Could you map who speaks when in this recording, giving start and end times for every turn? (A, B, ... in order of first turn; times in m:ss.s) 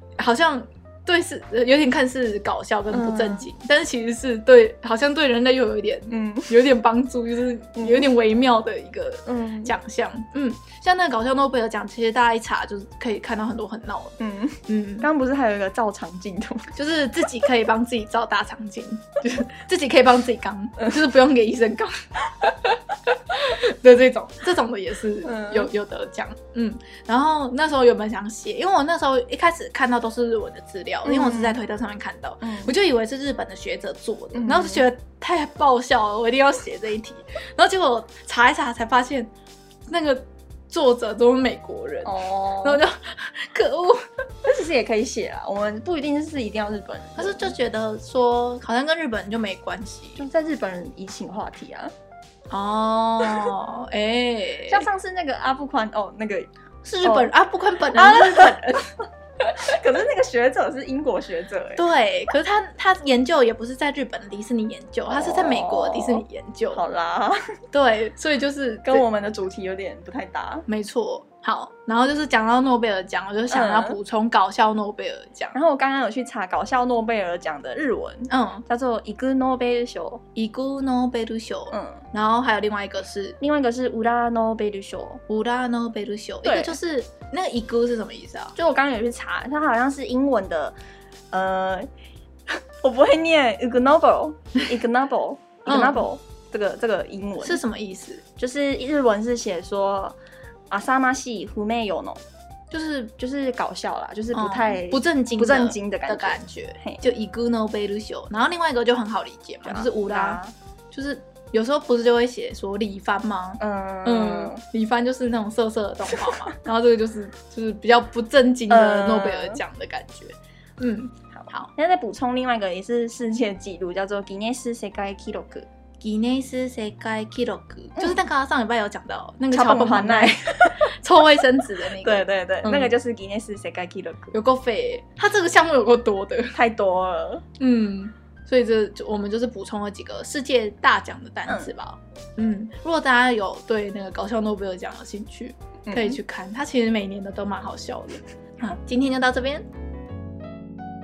0:00.2-0:15.1 A
0:02.9-0:03.5 B
0:06.1-0:06.5 B
0:07.8-0:08.1 B
0:09.2-0:09.7 B
0:14.2-0:16.7 B
0:16.7-0:39.3 A
0:25.2-0:25.7 B
0:31.0-0:31.6 B
0:32.4-0:32.7 B
0:34.3-0:34.8 B
0:39.9-0:44.0 A
0:42.0-0:42.8 B
0:44.4-0:47.5 B
0:47.2-0:50.2 A
0:50.2-0:51.9 B
0:52.5-0:54.9 A
0:54.7-0:56.5 B
0:56.8-0:59.6 A
0:57.0-0:57.3 B
0:57.9-0:58.8 B
0:59.5-1:01.8 B
1:01.8-1:06.8 A
1:05.1-1:07.4 B
1:07.7-1:09.0 A
1:08.8-1:10.6 B
1:10.7-1:15.6 A
1:13.5-1:14.0 B
1:15.5-1:20.2 B
1:18.3-1:18.6 A
1:20.3-1:23.4 A
1:21.7-1:22.0 B
1:23.4-1:25.2 B
1:25.3-1:28.5 A
1:26.4-1:26.8 B
1:28.6-1:30.8 B
1:31.3-1:31.9 B
1:32.5-1:37.6 B
1:35.6-1:36.0 A
1:37.4-1:38.2 A
1:38.4-1:40.2 B
1:40.7-1:42.2 B
1:42.7-1:43.1 A
1:43.2-1:47.0 B
1:44.3-1:50.4 A
1:49.6-1:50.5 B
1:50.9-2:01.7 A
1:53.6-1:54.6 B
1:56.1-1:56.4 B
1:58.7-1:59.6 B
2:01.3-2:05.7 B
2:06.0-2:12.9 A
2:09.5-2:10.9 B
2:12.0-2:14.4 B
2:14.3-2:16.6 A
2:16.5-2:17.4 B
2:17.6-2:29.7 A
2:21.5-2:21.7 B
2:25.9-2:26.2 B